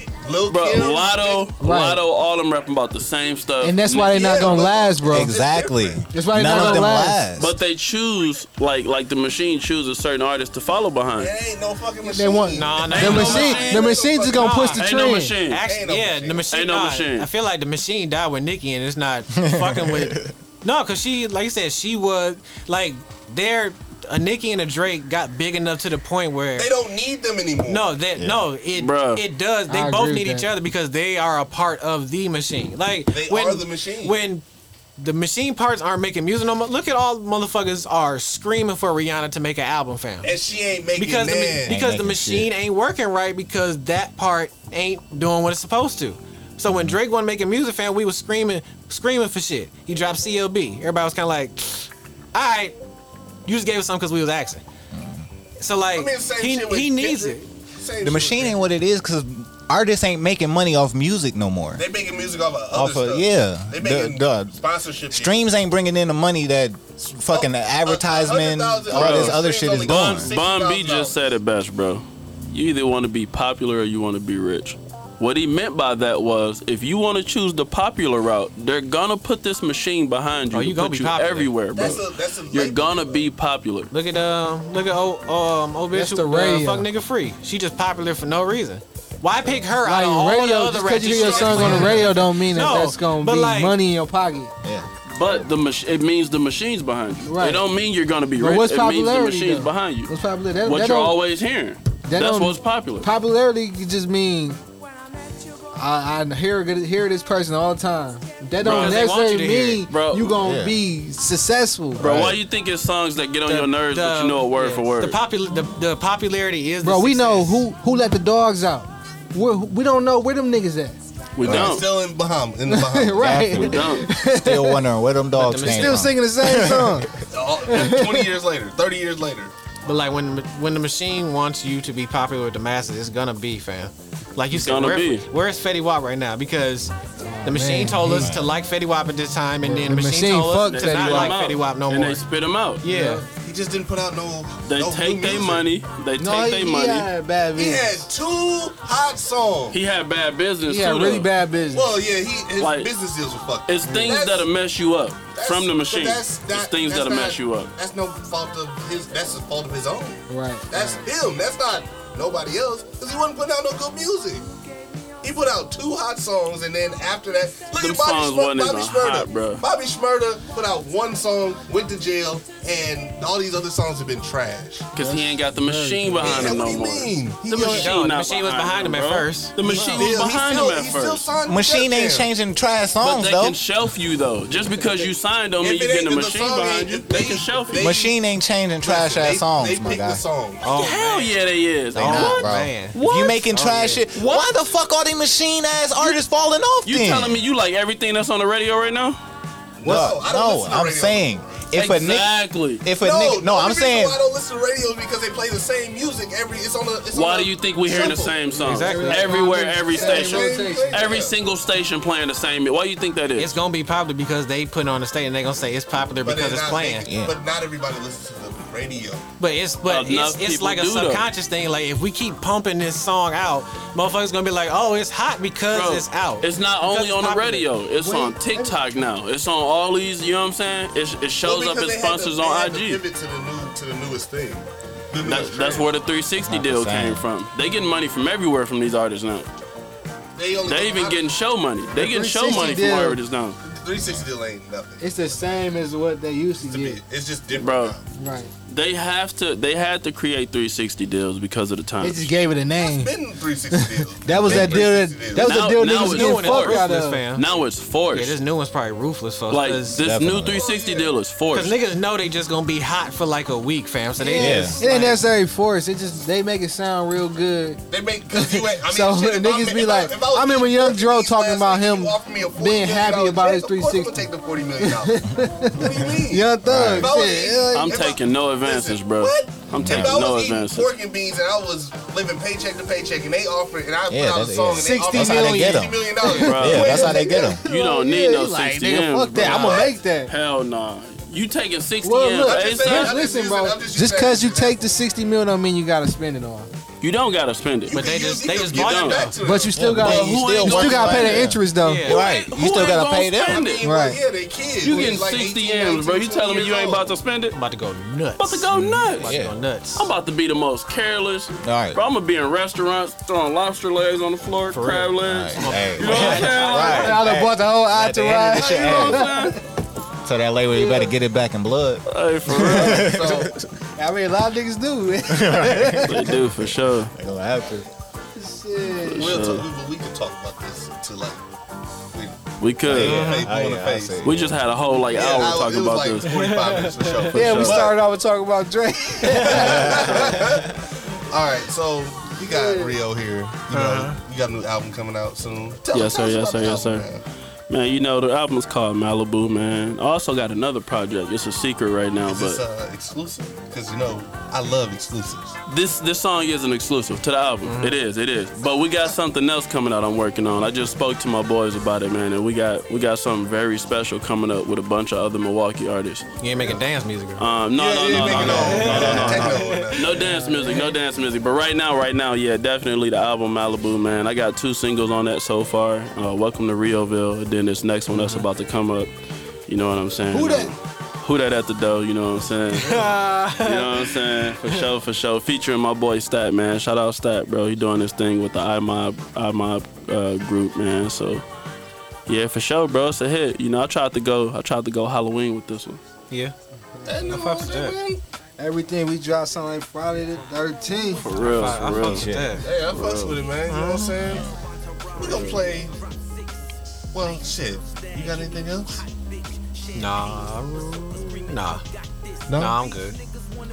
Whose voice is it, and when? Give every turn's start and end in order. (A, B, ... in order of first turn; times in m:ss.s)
0:00.2-0:01.5 A
0:00.5-0:04.3 B
0:01.6-0:02.0 C
0:03.6-0:05.4 C
0:04.0-0:06.0 A
0:05.1-0:07.5 D
0:06.1-0:07.3 C
0:06.5-0:11.3 B
0:11.2-0:15.0 A
0:12.0-0:15.4 C
0:12.5-0:13.8 E
0:12.9-0:15.6 B
0:15.5-0:26.7 E
0:15.6-0:16.5 A
0:16.5-0:17.3 B
0:19.3-0:20.3 D
0:26.6-0:28.0 A
0:27.7-0:34.4 E
0:28.2-0:28.5 D
0:28.8-0:29.2 B
0:29.7-0:30.5 C
0:33.1-0:34.2 A
0:35.0-0:40.3 E
0:40.2-0:41.8 A
0:41.0-0:52.8 E
0:41.7-0:42.5 D
0:46.7-0:47.0 D
0:53.5-0:54.6 E
0:54.9-0:55.2 D
0:55.6-0:57.5 E
0:55.9-0:58.6 A
0:58.0-1:01.8 D
1:01.8-1:05.4 A
1:02.7-1:04.6 D
1:05.1-1:10.3 D
1:07.3-1:11.3 A
1:08.9-1:23.9 B
1:20.5-1:21.5 E
1:21.7-1:23.2 A
1:23.9-1:33.8 E
1:25.9-1:26.9 C
1:29.8-1:34.5 C
1:31.0-1:32.2 A
1:35.1-1:40.1 B
1:37.2-1:37.6 C
1:38.4-1:41.2 C
1:40.6-1:43.1 B
1:42.1-1:44.6 C
1:45.8-1:52.2 C
1:48.6-1:49.1 B
1:48.6-1:49.8 E
1:49.9-1:50.4 B
1:50.4-1:50.8 D
1:52.0-1:55.2 B
1:52.1-1:52.4 A
1:53.5-1:57.6 E
1:56.8-2:01.0 C
2:01.4-2:01.9 B
2:01.4-2:03.6 A
2:01.4-2:01.8 D
2:02.7-2:04.8 C
2:03.2-2:07.1 D
2:03.5-2:04.1 B
2:05.4-2:06.1 E
2:05.6-2:07.2 C
2:07.3-2:09.5 A
2:07.7-2:08.3 C
2:09.8-2:22.2 E
2:14.5-2:15.2 B
2:17.2-2:18.3 C
2:18.2-2:18.5 D
2:19.6-2:21.4 C
2:20.6-2:22.8 B
2:22.8-2:23.3 E
2:22.8-2:23.3 C
2:23.4-2:25.7 A
2:24.7-2:27.1 B
2:26.2-2:28.1 C
2:27.5-2:29.8 A
2:29.7-2:31.3 B
2:30.7-2:32.0 C
2:31.7-2:34.5 A
2:32.6-2:32.9 B
2:33.7-2:37.7 B
2:35.4-2:44.4 A
2:40.3-2:41.0 C
2:45.2-2:54.9 A
2:47.8-2:49.6 B
2:55.0-3:01.3 B
2:55.0-2:56.5 C
2:56.2-2:57.9 A
2:57.6-3:00.0 E
2:59.6-3:02.3 A
2:59.7-3:00.2 C
3:01.5-3:03.6 D
3:03.0-3:07.9 B
3:05.6-3:08.2 A
3:07.8-3:10.2 D
3:08.8-3:10.6 A
3:10.6-3:11.4 E
3:10.7-3:13.5 B
3:11.9-3:13.0 E
3:12.0-3:17.4 D
3:13.5-3:14.1 E
3:14.2-3:14.5 B
3:16.8-3:19.2 B
3:19.8-3:21.4 A
3:19.8-3:24.2 D
3:21.7-3:22.8 B
3:23.0-3:28.4 A
3:27.1-3:33.5 B
3:28.6-3:29.4 E
3:28.7-3:31.2 C
3:29.9-3:31.4 A
3:33.4-3:37.1 E
3:36.2-3:39.2 A
3:37.1-3:37.4 D
3:39.4-3:47.7 E
3:39.9-3:41.3 B
3:45.7-3:53.0 B
3:48.0-3:48.8 C
3:51.4-3:55.9 A
3:55.2-3:59.5 B
3:56.4-3:57.2 D
4:00.4-4:01.3 A
4:00.7-4:03.6 B
4:02.0-4:03.2 C
4:03.6-4:05.4 A
4:05.0-4:07.0 C
4:06.6-4:08.1 A
4:07.6-4:08.0 B
4:08.2-4:08.5 C
4:08.7-4:12.3 B
4:12.0-4:13.2 C
4:12.8-4:15.7 A
4:13.7-4:17.3 C
4:14.5-4:14.8 D
4:15.4-4:18.4 B
4:15.9-4:17.5 E
4:18.1-4:20.0 E
4:19.5-4:21.8 B
4:20.0-4:20.6 D
4:20.5-4:21.1 A
4:21.5-4:25.2 E
4:24.2-4:34.2 C
4:24.4-4:24.8 D
4:27.9-4:47.6 A
4:34.8-4:38.0 C
4:36.6-4:37.2 D
4:37.7-4:40.9 B
4:39.7-4:40.2 D
4:44.1-4:47.6 D
4:44.7-4:50.3 C
4:46.3-4:47.0 B
4:47.6-4:53.2 B
4:49.4-4:49.9 A
4:52.0-4:56.7 C
4:52.4-4:54.8 A
4:57.0-4:59.3 B
4:57.9-5:01.6 A
4:57.9-4:59.3 E
4:59.4-5:02.1 C
4:59.8-5:03.7 D
5:00.1-5:00.9 B
5:01.8-5:02.2 E
5:02.1-5:03.8 B
5:03.5-5:07.1 A
5:03.8-5:04.2 C
5:04.8-5:07.6 B
5:07.5-5:10.1 E
5:08.4-5:09.4 B
5:08.7-5:09.6 D
5:10.0-5:17.2 B
5:11.6-5:12.0 D
5:14.7-5:17.0 E
5:15.2-5:19.3 D
5:16.4-5:19.6 C
5:18.6-5:19.6 B
5:20.2-5:23.7 D
5:20.7-5:21.1 C
5:22.1-5:23.1 B
5:22.5-5:23.5 A
5:24.0-5:26.4 C
5:25.3-5:27.9 D
5:26.1-5:27.1 B
5:28.4-5:29.4 C
5:29.0-5:29.7 B
5:29.2-5:31.4 A
5:32.1-5:34.4 A
5:32.6-5:33.2 B
5:32.8-5:34.5 D
5:33.0-5:33.5 E
5:34.2-5:36.6 B
5:35.1-5:38.0 A
5:36.3-5:37.2 E
5:37.3-5:37.8 B
5:37.3-5:40.4 C
5:39.1-5:47.2 A
5:39.5-5:40.6 D
5:42.4-5:43.0 C
5:43.7-5:44.2 E
5:45.9-5:47.1 B
5:47.7-5:52.6 B
5:52.2-5:55.6 A
5:55.7-6:06.3 B
5:57.6-5:58.0 E
6:06.4-6:07.4 E
6:07.4-6:19.1 B
6:07.7-6:10.4 A
6:08.2-6:10.9 E
6:08.3-6:09.5 D
6:18.1-6:18.4 E
6:19.7-6:31.4 B
6:20.3-6:20.7 C
6:22.8-6:24.8 E
6:32.3-6:36.0 B
6:37.0-6:38.2 A
6:37.2-6:38.0 E
6:38.6-6:41.3 C
6:41.2-6:42.3 B
6:41.4-6:42.7 E
6:42.0-6:42.6 D
6:42.6-6:44.5 A
6:42.9-6:43.4 B
6:43.7-6:44.2 E
6:44.2-6:44.5 D
6:45.2-6:45.9 A
6:45.2-6:45.6 B
6:47.1-6:49.0 A
6:49.9-6:51.8 E
6:52.5-6:52.8 A
6:52.6-6:53.2 E